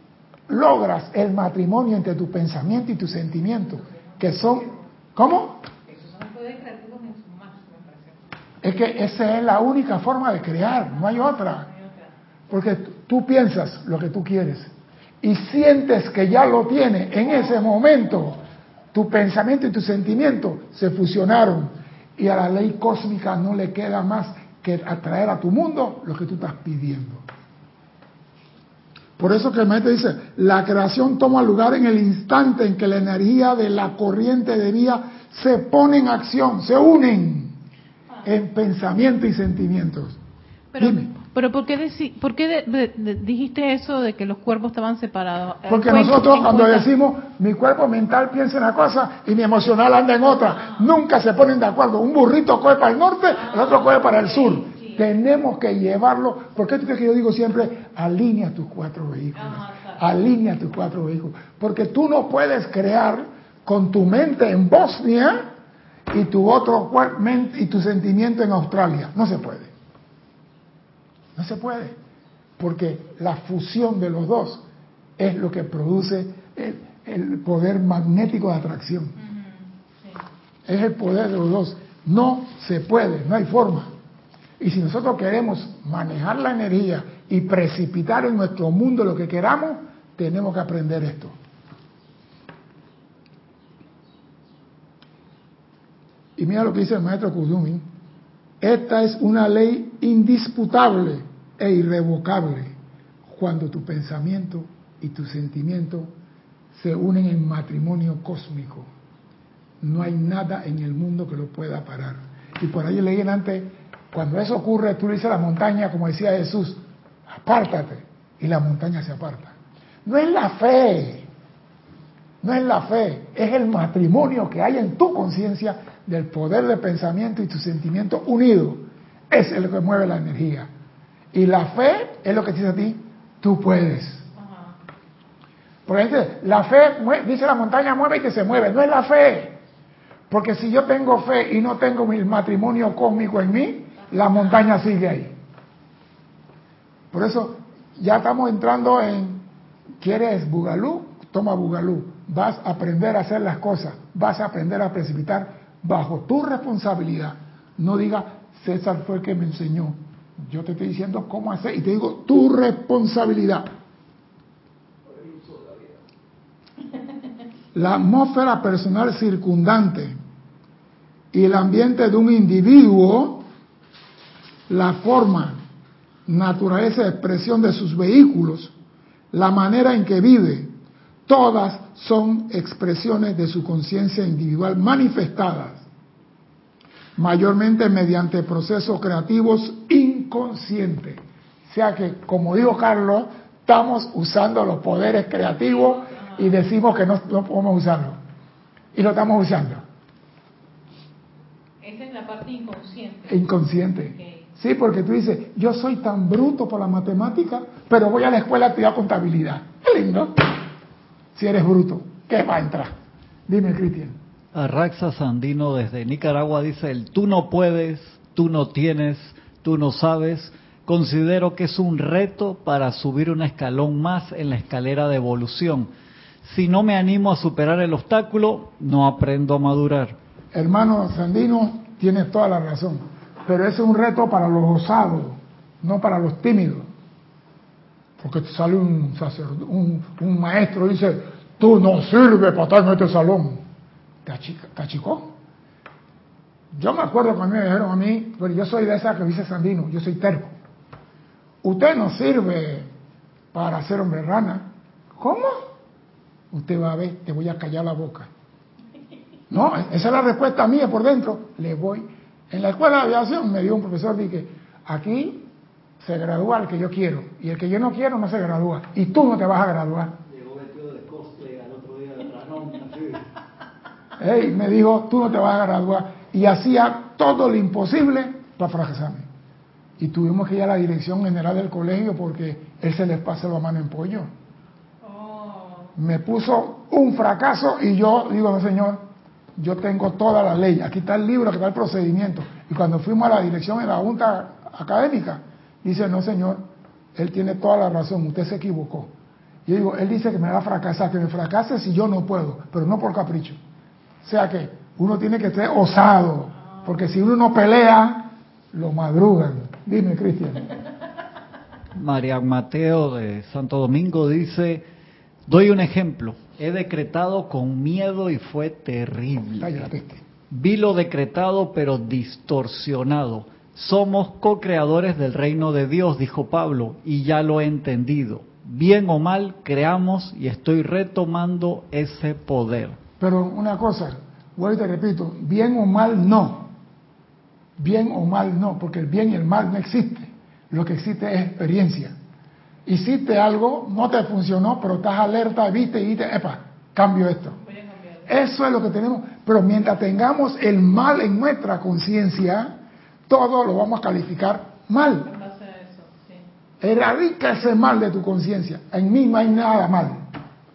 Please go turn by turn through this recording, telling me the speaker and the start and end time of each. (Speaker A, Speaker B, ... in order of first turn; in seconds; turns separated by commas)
Speaker A: 0.5-5.7, Speaker B: 3.6-4.8, Speaker B: 5.9-8.3, Speaker A: 8.6-11.7, Speaker B: 10.8-12.1, Speaker A: 12.5-14.7, Speaker A: 15.2-18.4, Speaker A: 18.9-27.2, Speaker A: 29.2-37.5, Speaker A: 38.2-40.2, Speaker B: 40.7-46.9, Speaker A: 40.8-41.1, Speaker A: 45.7-65.5, Speaker B: 53.3-55.0, Speaker B: 59.4-60.0, Speaker A: 66.1-69.7, Speaker A: 71.4-72.0, Speaker A: 72.6-74.6, Speaker A: 75.2-79.2, Speaker B: 79.3-80.2, Speaker A: 80.7-83.9, Speaker A: 84.6-91.3, Speaker A: 96.4-97.9, Speaker A: 98.6-102.7, Speaker A: 103.3-106.1, Speaker A: 106.7-108.9, Speaker A: 109.8-121.3, Speaker A: 122.4-130.7, Speaker A: 131.3-134.2, Speaker B: 134.4-134.8, Speaker A: 135.9-139.6, Speaker A: 140.3-145.3, Speaker A: 147.1-149.4, Speaker A: 150.0-163.7, Speaker C: 165.1-166.0, Speaker A: 167.7-170.2, Speaker A: 171.3-173.4, Speaker A: 174.7-175.6, Speaker A: 176.3-178.7, Speaker A: 179.3-180.7, Speaker A: 181.3-185.8, Speaker A: 187.2-198.2, Speaker B: 195.6-196.5, Speaker A: 198.9-199.8, Speaker B: 201.8-204.4, Speaker A: 203.3-210.6, Speaker A: 211.3-212.9, Speaker A: 213.5-214.2, Speaker C: 214.5-225.9, Speaker C: 226.4-230.2, Speaker A: 230.5-236.9, Speaker A: 238.2-243.6, Speaker A: 244.2-245.3, Speaker A: 246.7-250.5, Speaker A: 251.6-252.9, Speaker A: 253.5-255.7, Speaker A: 256.5-258.3, Speaker A: 259.5-265.5, Speaker A: 266.0-270.2, Speaker C: 270.3-273.3, Speaker A: 274.2-279.3, Speaker A: 280.0-284.3, Speaker B: 285.0-285.9, Speaker A: 286.0-289.1, Speaker A: 289.6-299.1, Speaker A: 299.7-303.6, Speaker A: 304.2-310.7, Speaker C: 311.9-314.9, Speaker C: 315.5-319.9, Speaker A: 319.6-320.2, Speaker C: 320.5-333.0, Speaker A: 333.2-336.7, Speaker A: 337.8-342.1, Speaker A: 342.9-347.6, Speaker B: 347.6-348.3, Speaker A: 348.3-352.8, Speaker A: 353.3-355.3, Speaker B: 355.2-356.4, Speaker A: 356.8-360.2